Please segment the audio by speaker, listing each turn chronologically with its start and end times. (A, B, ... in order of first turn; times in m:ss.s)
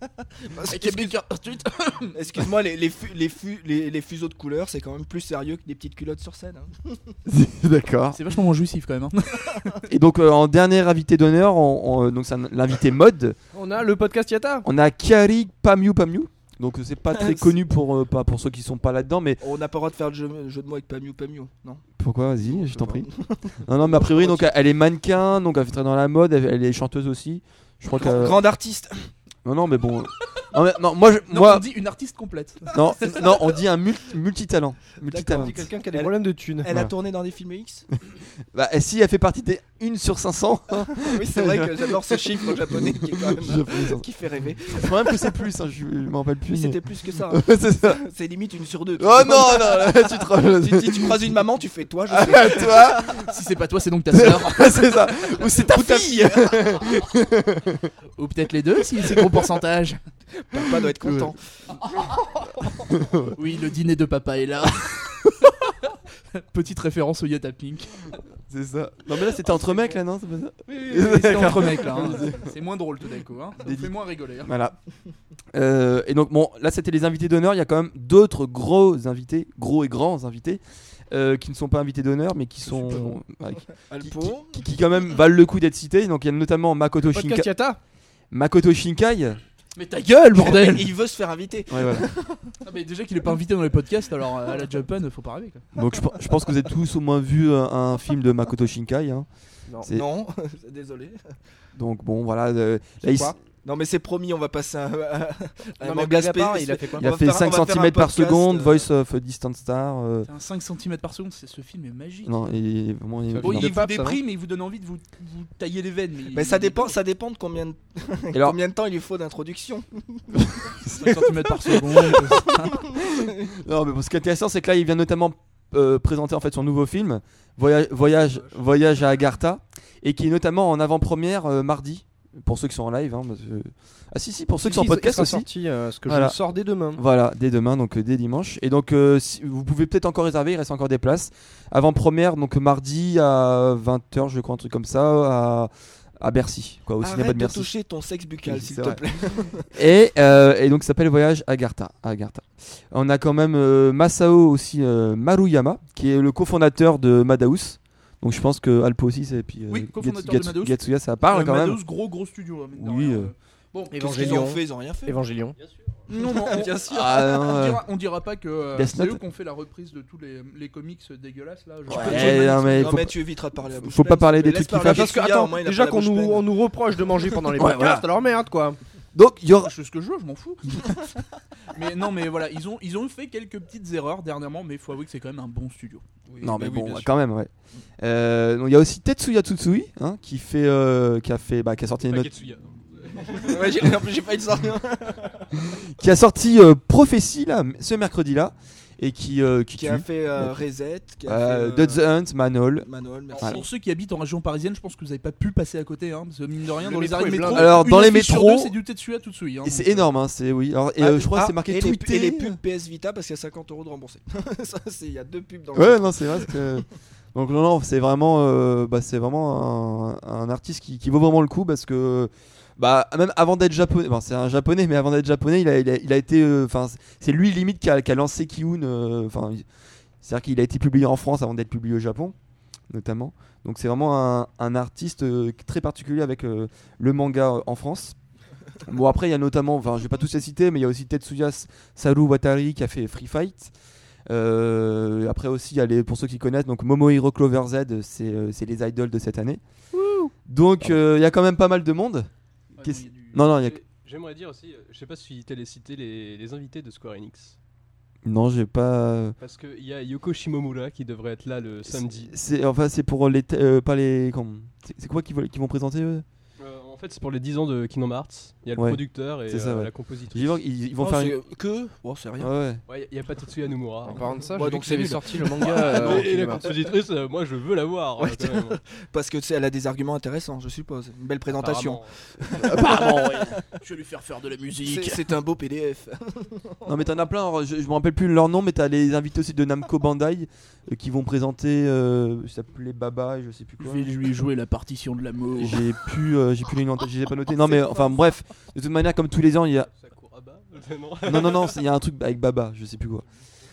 0:00.4-0:01.1 A
0:00.7-0:02.2 B
0:02.1-0:07.1 A
0:07.3-0:08.2 C
0:08.1-0:09.8 B
0:09.9-0:13.4 C
0:13.5-0:14.6 D
0:14.6-0:19.4 C
0:17.1-0:17.5 A
0:19.4-0:21.8 A
0:22.0-0:23.1 C
0:22.5-0:24.5 A
0:23.6-0:28.4 C
0:28.0-0:29.1 A
0:29.4-0:31.6 C
0:31.3-0:32.7 B
0:32.7-0:35.6 C
0:35.1-0:37.9 A
0:35.3-0:36.7 D
0:38.5-0:44.0 C
0:40.9-0:45.3 A
0:44.6-0:48.0 C
0:46.5-0:53.3 A
0:49.0-0:51.3 C
0:52.1-0:53.3 C
0:53.1-0:55.0 B
0:54.1-0:57.9 C
0:55.4-0:56.9 A
0:58.2-1:00.0 B
1:00.4-1:01.4 A
1:01.0-1:01.3 C
1:02.9-1:03.4 C
1:03.3-1:08.1 B
1:08.5-1:12.5 C
1:10.7-1:14.5 B
1:13.6-1:14.8 C
1:15.5-1:27.5 C
1:23.7-1:24.6 A
1:27.1-1:27.8 D
1:28.3-1:29.4 C
1:29.8-1:30.9 B
1:30.3-1:32.6 A
1:31.7-1:32.0 C
1:32.6-1:35.6 B
1:35.7-1:39.3 C
1:39.9-1:41.4 A
1:41.7-1:43.4 C
1:43.0-1:43.3 D
1:43.6-1:48.8 A
1:45.8-1:47.1 D
1:47.0-1:50.3 C
1:50.2-1:52.3 B
1:52.2-1:53.8 C
1:53.3-1:54.2 D
1:53.4-1:56.9 B
1:56.3-2:00.2 A
2:00.3-2:15.5 C
2:00.9-2:02.8 B
2:14.6-2:17.0 D
2:16.0-2:16.4 C
2:16.9-2:27.7 C
2:27.0-2:29.7 A
2:28.4-2:29.0 C
2:29.7-2:41.8 C
2:39.7-2:44.3 B
2:42.8-2:43.3 C
2:43.9-2:45.6 D
2:44.0-2:45.2 A
2:45.6-2:46.0 E
2:46.1-2:53.0 B
2:46.1-2:47.2 A
2:46.9-2:47.8 C
2:48.7-2:49.2 C
2:51.9-2:53.2 C
2:51.9-2:56.6 A
2:53.8-2:55.1 C
2:54.8-2:58.8 D
2:57.6-2:58.0 C
2:59.1-2:59.7 C
2:59.6-3:01.1 B
3:01.7-3:06.0 B
3:06.3-3:07.1 E
3:06.4-3:12.3 C
3:12.0-3:13.9 E
3:13.4-3:15.5 A
3:15.7-3:20.5 C
3:19.8-3:22.0 A
3:21.2-3:22.9 C
3:22.8-3:23.6 A
3:23.3-3:30.1 B
3:26.8-3:27.8 D
3:27.1-3:27.4 A
3:27.5-3:28.7 C
3:29.6-3:32.6 C
3:31.0-3:36.6 A
3:35.7-3:49.6 C
3:50.2-3:52.3 C
3:52.9-3:58.2 C
3:58.8-4:03.7 C
4:04.3-4:09.6 C
4:09.9-4:10.3 D
4:10.4-4:12.3 C
4:12.8-4:13.4 B
4:12.8-4:13.8 C
4:13.6-4:17.6 E
4:18.2-4:19.4 C
4:19.4-4:22.3 E
4:21.9-4:26.2 C
4:26.6-4:30.6 E
4:28.8-4:31.4 C
4:31.0-4:32.5 A
4:32.4-4:32.8 C
4:32.9-4:38.8 E
4:34.0-4:36.7 D
4:34.6-4:36.2 A
4:38.2-4:43.6 A
4:41.5-4:42.2 E
4:42.6-4:43.6 C
4:43.6-4:45.2 B
4:44.8-4:46.9 A
4:46.8-4:54.2 C
4:53.8-4:55.8 B
4:55.6-4:59.9 C
4:59.9-5:01.8 E
5:01.2-5:03.2 C